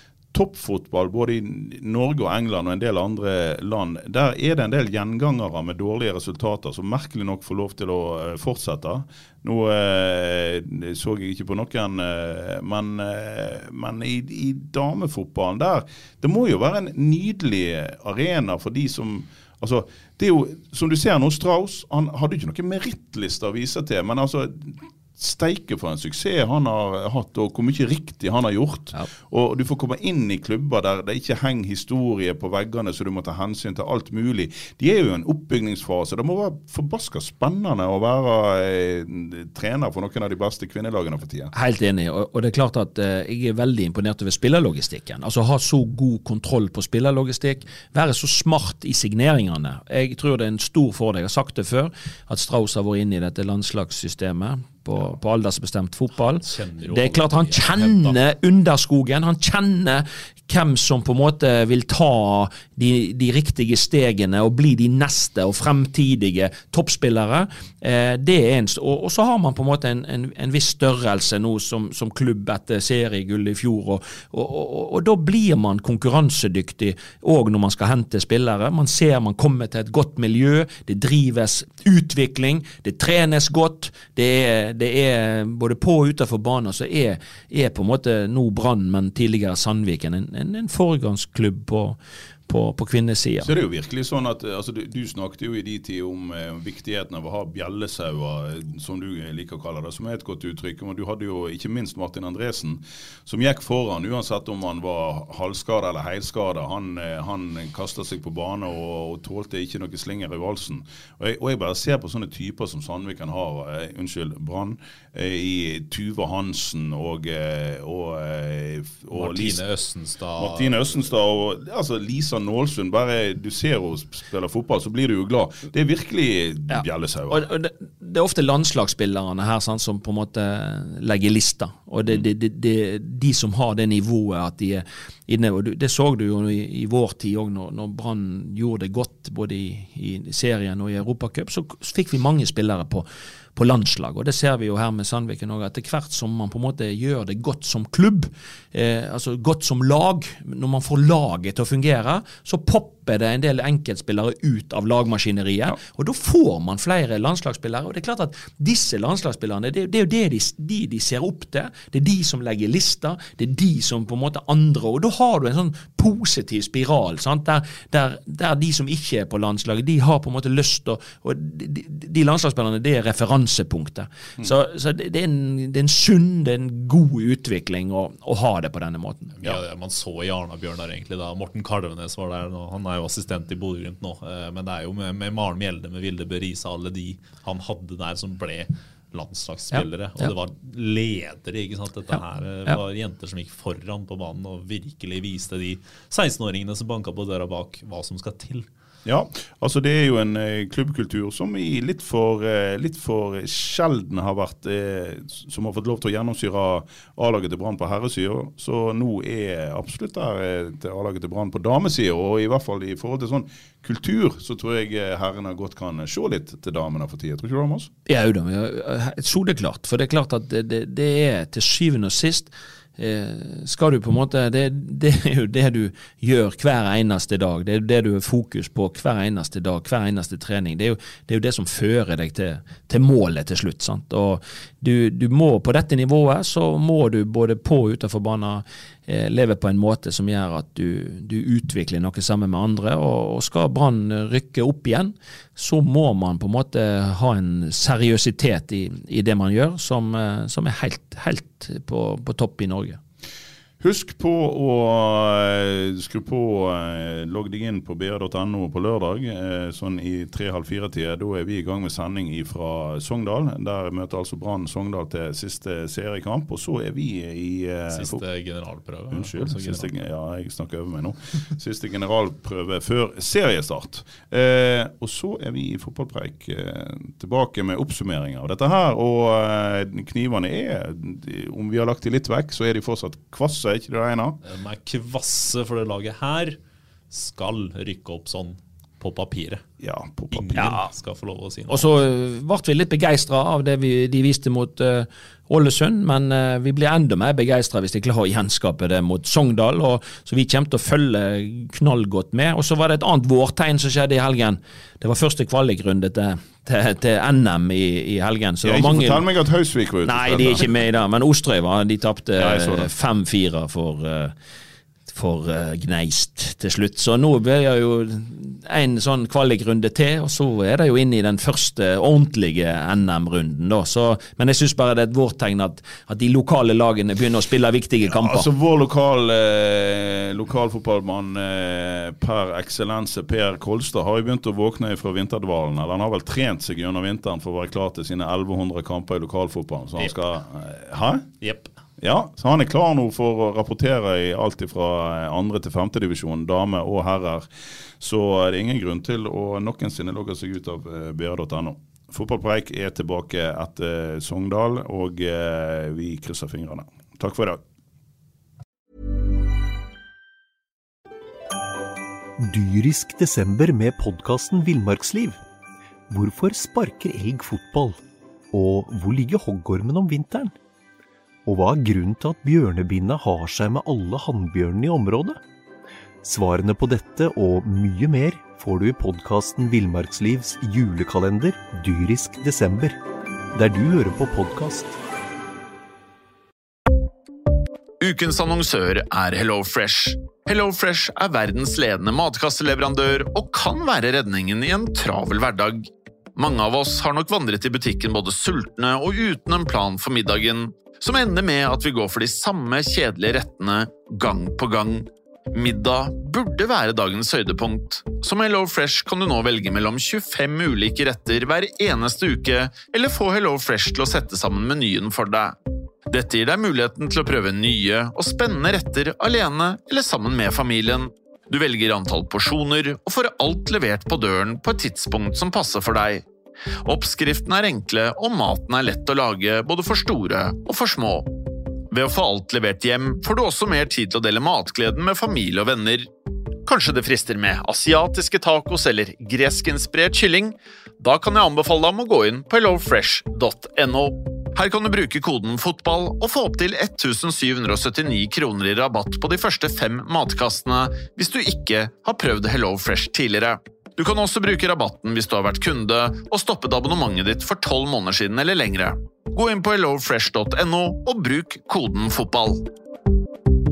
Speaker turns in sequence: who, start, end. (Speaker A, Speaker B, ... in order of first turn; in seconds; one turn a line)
Speaker A: 0.3-41.5
Speaker B: 41.5-93.5
Speaker C: 56.4-58.2
Speaker A: 93.4-119.6
Speaker C: 119.1-121.0
Speaker A: 120.4-127.5
Speaker B: 126.7-179.3
Speaker C: 179.3-198.7
Speaker B: 189.7-190.3
Speaker B: 192.1-192.8
Speaker A: 199.0-217.9
Speaker B: 218.1-253.0
Speaker A: 253.8-268.2
Speaker C: 267.9-269.9
Speaker A: 269.1-284.4
Speaker C: 284.4-286.6
Speaker C: 287.1-289.6
Speaker A: 289.8-290.7
Speaker C: 290.3-291.9
Speaker B: 290.5-290.9
Speaker B: 291.7-309.2
Speaker A: 308.6-310.6
Speaker B: 310.0-314.3
Speaker A: 312.4-312.9
Speaker B: 315.1-328.5
Speaker A: 328.1-341.3
Speaker C: 341.4-341.7
Speaker A: 342.0-357.6
Speaker D: 362.4-365.4
Speaker D: 366.1-368.0
Speaker D: 368.5-370.5
Speaker D: 371.4-375.4
Speaker D: 376.2-383.0
Speaker D: 383.5-385.0
Speaker E: 388.0-415.5
Speaker E: 416.1-426.2
Speaker E: 426.8-431.3
Speaker E: 431.9-436.1
Speaker E: 436.6-462.6